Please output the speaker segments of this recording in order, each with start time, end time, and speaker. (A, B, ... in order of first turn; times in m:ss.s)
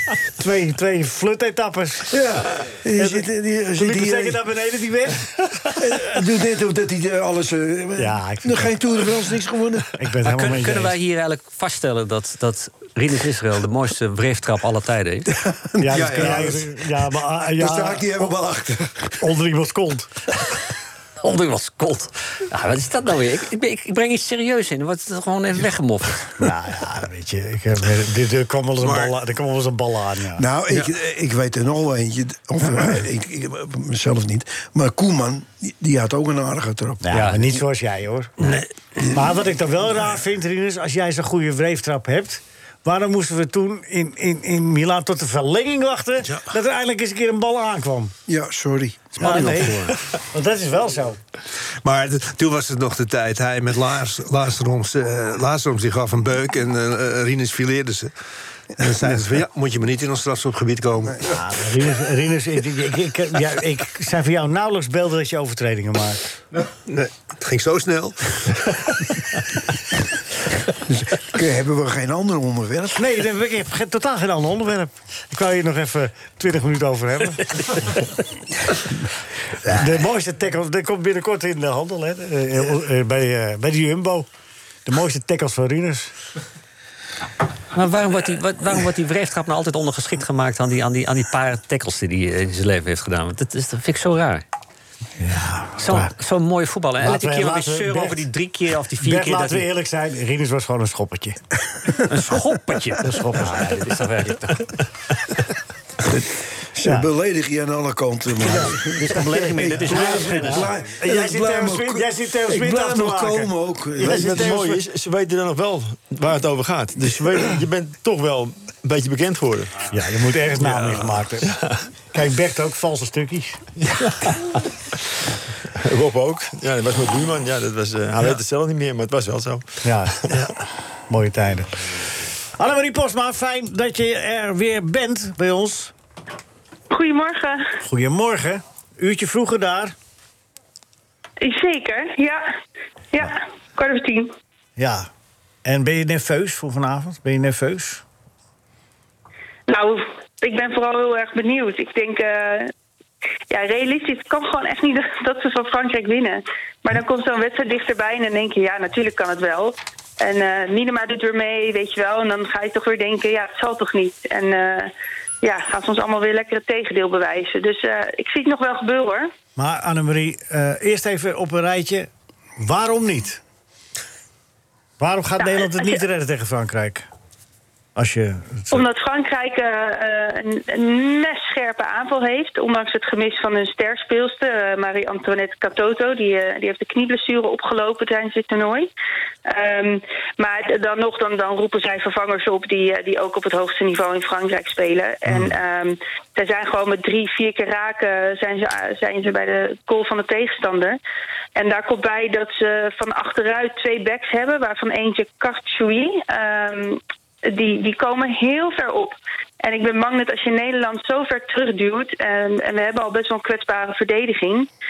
0:00.4-0:02.2 A
0:02.1-0:04.4 B
0:03.0-0:05.8 A
0:05.8-0:09.9 B
0:08.0-0:08.7 A
0:09.9-0:11.0 A
0:10.2-0:15.3 C
0:15.4-0:16.6 B
0:15.8-0:18.3 A
0:15.9-0:16.7 D
0:17.6-0:18.9 B
0:18.0-0:18.5 D
0:19.2-0:20.1 A
0:21.2-0:26.3 C
0:26.4-0:30.4 A
0:28.8-0:29.1 D
0:30.4-0:37.0 B
0:37.0-0:38.3 A
0:37.1-0:37.5 C
0:38.4-0:38.7 D
0:39.1-0:48.1 A
0:48.3-0:49.1 B
0:49.2-0:51.2 A
0:49.2-0:49.9 C
0:51.7-0:58.1 D
0:58.8-1:01.3 D
1:01.3-1:06.2 A
1:06.7-1:08.8 D
1:10.9-1:13.0 B
1:13.0-1:17.6 A
1:19.6-1:24.3 A
1:24.9-1:26.1 A
1:27.7-1:34.4 C
1:35.2-1:36.1 A
1:35.8-1:39.7 C
1:37.0-1:38.3 A
1:39.0-1:41.4 A
1:42.1-1:44.7 C
1:46.0-1:54.8 B
1:48.4-1:50.7 C
1:48.5-1:54.8 A
1:54.0-1:59.9 E
1:59.9-2:01.5 A
2:00.7-2:01.0 E
2:02.1-2:03.6 A
2:03.9-2:04.6 E
2:05.8-2:09.8 E
2:09.8-2:10.3 A
2:11.1-2:11.8 A
2:12.6-2:15.9 A
2:16.9-2:17.7 F
2:17.8-2:19.9 A
2:21.4-2:22.4 F
2:23.1-2:24.3 F
2:24.8-2:25.1 A
2:25.6-2:28.0 A
2:29.7-2:32.7 F
2:33.5-2:49.3 F
2:49.6-2:52.1 A
2:52.6-2:53.4 A
2:55.0-2:57.1 A
2:55.4-2:56.0 F
2:58.0-2:58.8 A
2:58.7-3:08.9 F
3:09.4-3:21.0 F
3:21.6-3:34.7 F